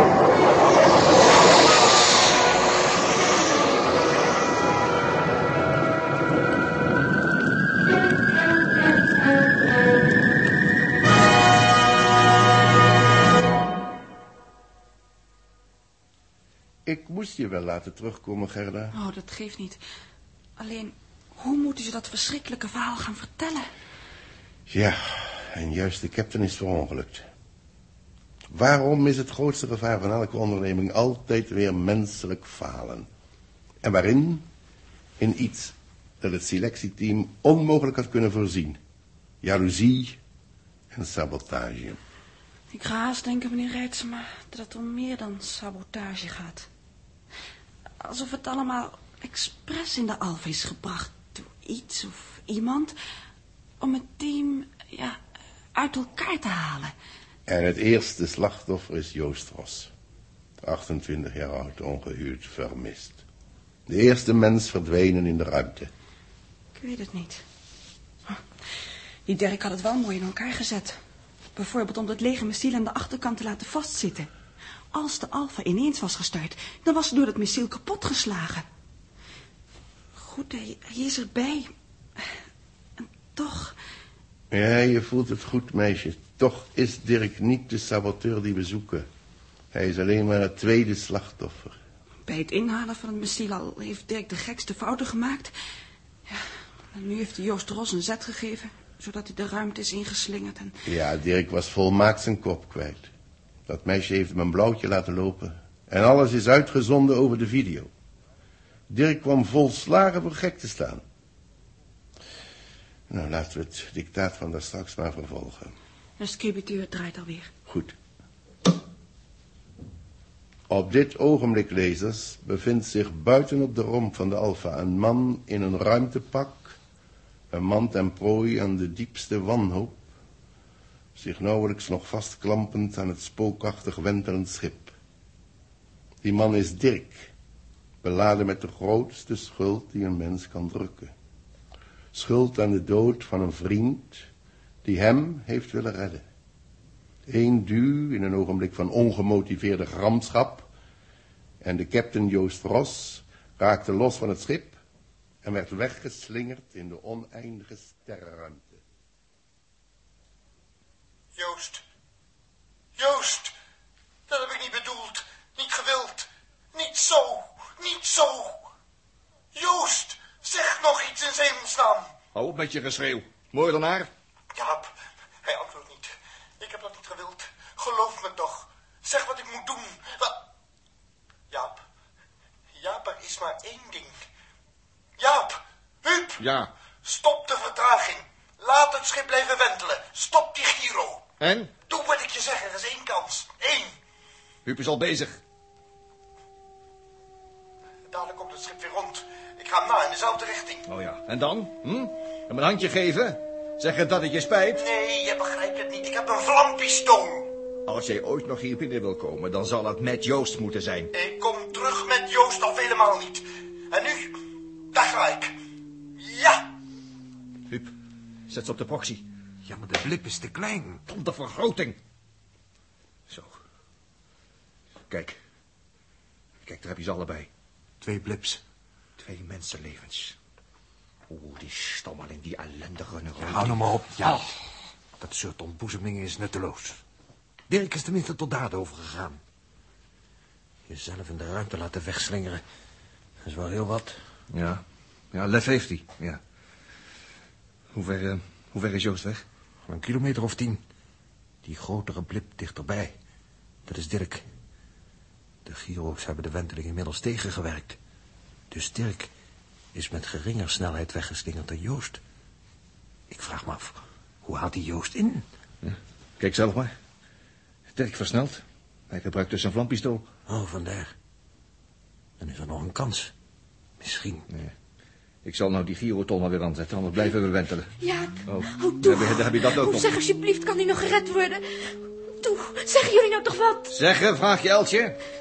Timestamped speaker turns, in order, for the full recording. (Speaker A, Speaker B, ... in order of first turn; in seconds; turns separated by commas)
Speaker A: 16.9-18.9, Speaker B: 18.9-19.8, Speaker B: 20.6-23.7, Speaker A: 24.7-27.3, Speaker A: 28.5-33.1, Speaker A: 33.8-34.5, Speaker A: 35.2-38.8, Speaker A: 39.4-40.2, Speaker A: 40.9-42.0, Speaker B: 42.7-46.7, Speaker B: 48.0-53.0, Speaker B: 53.8-55.2, Speaker B: 55.7-56.9, Speaker A: 57.5-59.9, Speaker A: 60.6-63.2, Speaker A: 63.9-65.9, Speaker B: 66.7-67.4, Speaker B: 69.2-71.0, Speaker B: 71.5-74.3, Speaker B: 74.9-78.7, Speaker B: 80.2-82.3, Speaker B: 83.0-83.7, Speaker A: 84.5-89.1, Speaker A: 89.7-91.8, Speaker B: 92.2-95.5, Speaker B: 96.3-100.7, Speaker A: 100.8-103.1, Speaker A: 103.7-107.9, Speaker A: 108.9-111.0, Speaker A: 113.1-115.7, Speaker B: 116.2-117.5, Speaker A: 117.7-118.0, Speaker A: 120.7-126.8, Speaker A: 127.5-130.0, Speaker A: 131.1-134.9, Speaker A: 136.2-137.3, Speaker A: 138.0-141.1, Speaker A: 142.1-144.3, Speaker A: 144.8-146.2, Speaker A: 147.3-150.7, Speaker A: 151.6-154.8, Speaker A: 155.4-158.8, Speaker C: 161.3-161.8, Speaker C: 163.0-163.5, Speaker C: 164.3-168.7, Speaker C: 169.5-172.1, Speaker D: 172.3-174.1, Speaker C: 174.5-174.9, Speaker C: 175.4-180.4, Speaker C: 181.5-181.8, Speaker C: 182.8-184.2, Speaker C: 185.2-186.4, Speaker D: 186.4-186.7, Speaker C: 187.0-191.2, Speaker D: 191.4-191.7, Speaker C: 191.9-193.9, Speaker D: 194.6-195.4, Speaker C: 198.1-200.8, Speaker D: 200.9-204.8, Speaker C: 204.7-207.5, Speaker D: 207.8-211.1, Speaker C: 211.1-214.4, Speaker C: 214.9-215.5, Speaker C: 216.2-216.7, Speaker D: 218.5-219.2, Speaker E: 219.6-221.0, Speaker D: 221.1-222.0, Speaker D: 223.3-223.6, Speaker D: 225.1-225.4, Speaker D: 226.6-227.5, Speaker E: 228.0-228.6, Speaker D: 229.2-230.3, Speaker D: 231.3-234.4, Speaker E: 233.4-234.5, Speaker E: 235.2-237.0, Speaker E: 237.7-239.4, Speaker E: 240.9-242.6, Speaker E: 243.4-244.2, Speaker D: 244.5-246.4, Speaker D: 247.9-249.4, Speaker E: 249.9-250.8, Speaker E: 251.6-253.2, Speaker E: 253.8-254.4, Speaker E: 255.6-258.0, Speaker E: 258.7-259.3, Speaker E: 259.9-262.2, Speaker E: 263.3-265.4, Speaker D: 265.8-266.9, Speaker D: 267.9-270.3, Speaker E: 270.5-271.1, Speaker E: 272.4-273.3, Speaker E: 274.0-274.4, Speaker D: 274.5-274.7, Speaker D: 275.4-277.9, Speaker F: 278.0-284.0, Speaker D: 278.4-280.1, Speaker D: 283.9-285.2